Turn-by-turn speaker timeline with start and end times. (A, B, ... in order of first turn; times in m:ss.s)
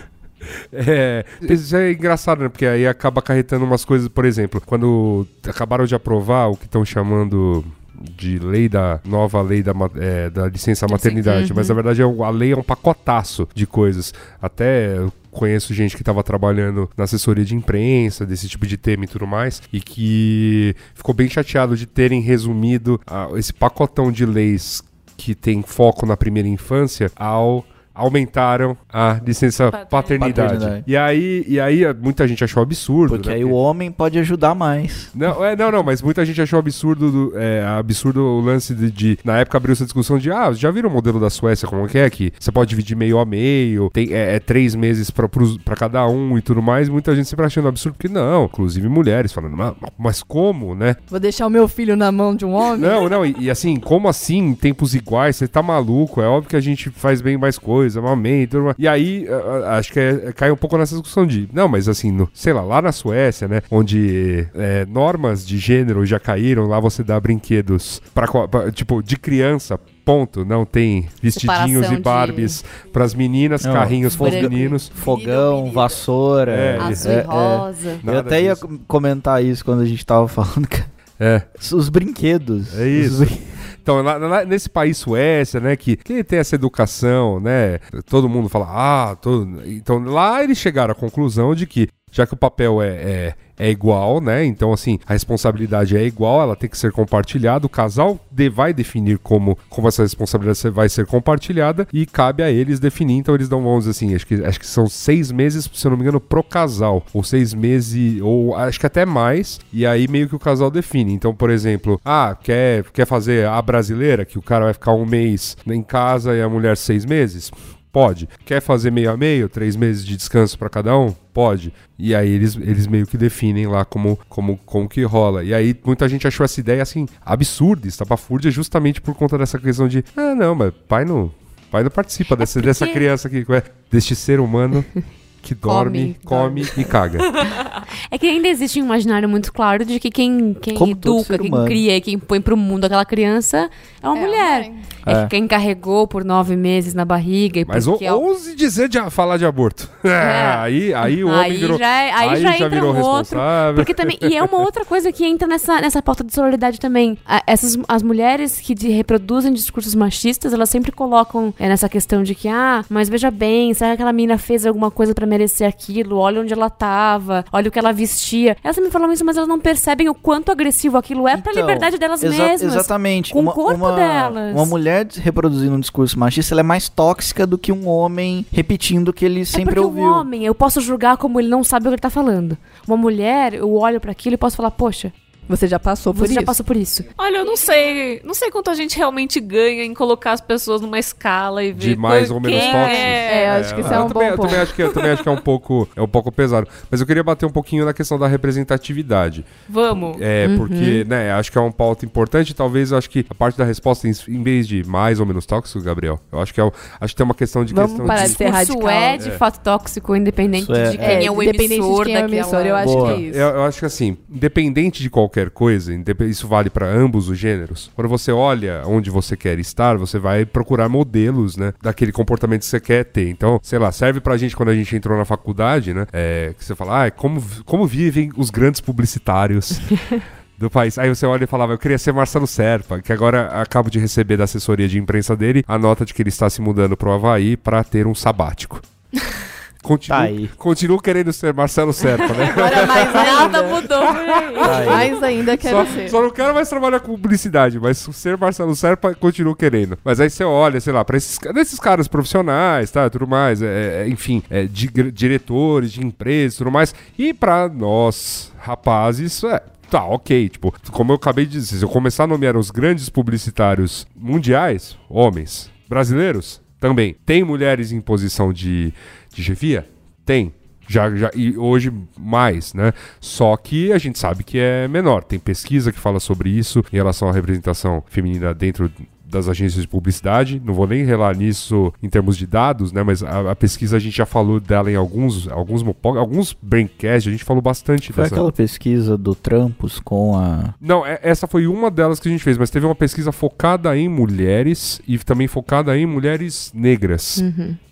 0:00.7-0:33.5 A
0:10.9-0:11.8 B
0:29.7-0:30.2 C
0:30.2-0:30.8 D
0:33.1-0:35.1 D
0:35.1-0:51.0 A
0:51.1-0:53.1 E
0:52.7-1:14.9 A
1:11.3-1:12.6 B
1:13.6-1:20.9 D
1:14.2-1:14.5 B
1:14.5-1:16.0 E
1:16.5-1:17.1 A
1:16.8-1:18.0 B
1:18.0-1:18.6 A
1:21.2-1:21.4 A
1:21.6-1:23.4 D
1:22.7-2:14.9 A
2:12.4-2:13.0 B
2:15.4-2:17.3 A
2:15.6-2:16.9 B
2:18.1-2:28.2 B
2:20.7-2:21.8 D
2:24.1-2:24.8 E
2:25.0-2:25.3 D
2:27.7-2:34.6 A
2:30.2-2:54.7 B
2:51.3-3:00.3 D
2:59.5-3:05.1 B
3:05.5-3:06.6 E
3:06.1-3:07.0 B
3:07.2-3:13.5 C
3:11.7-3:19.5 A
3:12.5-3:13.1 B
3:12.7-3:14.8 E
3:15.0-3:15.2 C
3:19.7-3:20.2 C
3:20.1-3:28.4 A
3:20.4-3:21.0 B
3:27.7-3:29.2 E
3:28.0-3:33.1 B
3:30.6-3:31.3 D
3:31.0-3:33.5 E
3:32.8-3:33.2 D
3:33.1-3:58.8 A
3:59.8-4:48.4 A
4:00.1-4:00.5 D
4:02.4-4:03.8 E
4:02.9-4:04.8 C
4:03.1-4:04.6 B
4:04.6-4:06.2 E
4:04.6-4:05.1 D
4:48.1-4:50.7 D
4:50.8-4:57.4 A
4:57.4-4:57.8 B